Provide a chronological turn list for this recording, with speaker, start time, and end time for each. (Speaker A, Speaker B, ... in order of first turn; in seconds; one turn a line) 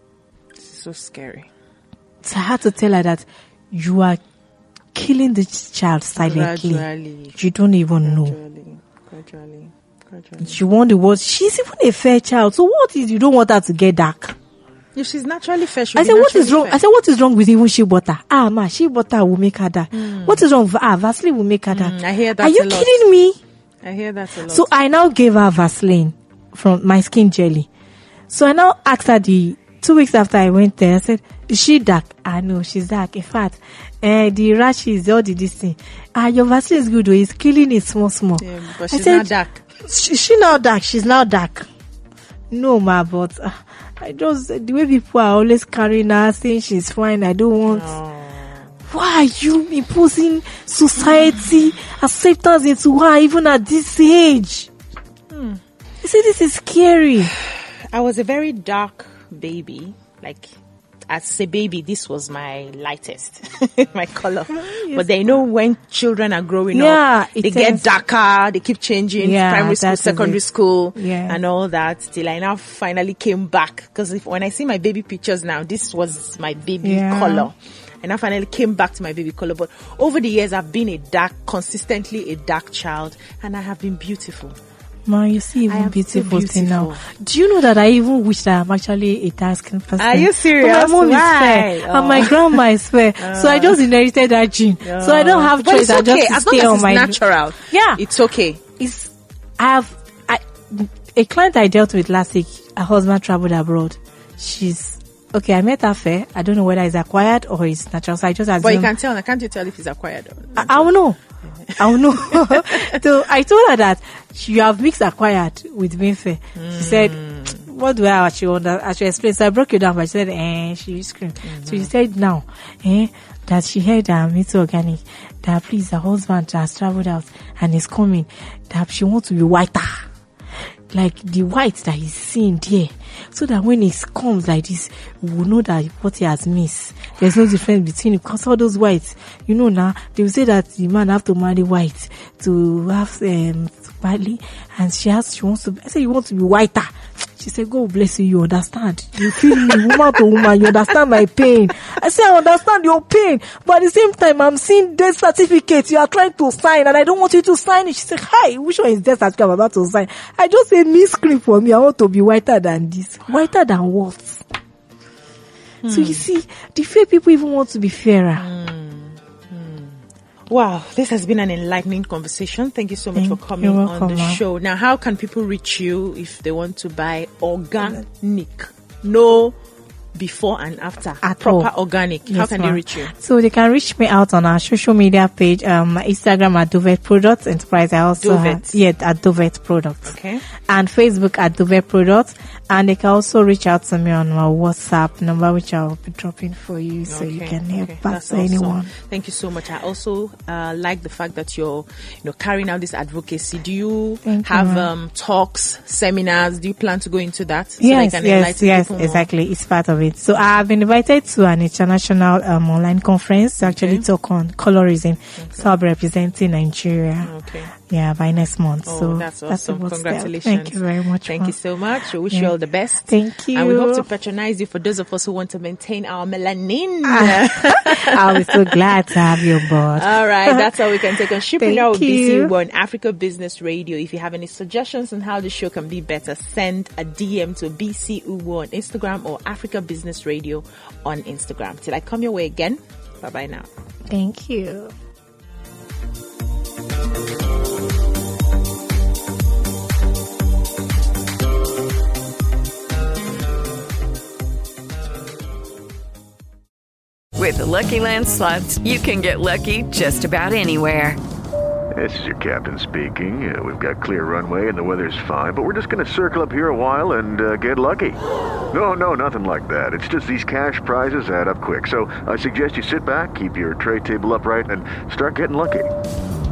Speaker A: 0.6-1.5
Speaker B: 2.2-4.2
Speaker B: 4.9-6.8
Speaker A: 6.2-7.4
Speaker B: 7.4-8.3
Speaker A: 8.0-10.6
Speaker B: 10.4-14.4
Speaker A: 14.9-16.8
Speaker B: 16.0-23.4
Speaker A: 19.9-20.4
Speaker A: 21.7-23.0
Speaker A: 23.8-24.7
Speaker B: 24.5-27.7
Speaker B: 28.3-39.3
Speaker A: 38.4-39.6
Speaker B: 39.8-41.7
Speaker B: 42.5-48.0
Speaker A: 47.7-48.7
Speaker B: 48.9-54.7
Speaker A: 55.3-55.6
Speaker B: 56.0-57.3
Speaker A: 57.9-60.5
Speaker A: 61.1-84.6
Speaker B: 64.6-65.1
Speaker B: 66.7-67.8
Speaker B: 69.2-70.4
Speaker B: 71.0-71.4
Speaker B: 76.8-77.5
Speaker B: 85.1-97.2
Speaker A: 85.7-87.1
Speaker A: 90.0-92.6
Speaker A: 93.2-93.9
Speaker A: 94.8-98.6
Speaker B: 97.7-98.0
Speaker B: 98.8-108.9
Speaker A: 108.6-110.9
Speaker B: 110.6-111.2
Speaker A: 111.6-113.0
Speaker B: 111.8-130.1
Speaker A: 116.5-117.7
Speaker A: 121.4-121.9
Speaker B: 130.9-164.4
Speaker A: 149.3-150.0
Speaker A: 165.8-166.2
Speaker B: 165.9-168.5
Speaker A: 168.4-179.6
Speaker B: 173.2-174.4
Speaker A: 180.2-183.1
Speaker B: 181.2-181.7
Speaker B: 182.3-190.2
Speaker A: 188.2-188.8
Speaker A: 190.1-190.4
Speaker B: 190.7-198.9
Speaker A: 197.1-209.3
Speaker B: 204.2-204.9
Speaker B: 207.8-221.5
Speaker A: 213.6-214.0
Speaker A: 215.4-215.7
Speaker A: 217.2-217.7
Speaker A: 218.9-228.8
Speaker B: 223.1-224.1
Speaker B: 227.1-230.7
Speaker A: 229.9-243.7
Speaker B: 231.6-232.5
Speaker B: 244.1-244.9
Speaker C: 257.4-261.2
Speaker D: 261.9-268.2
Speaker D: 268.7-275.9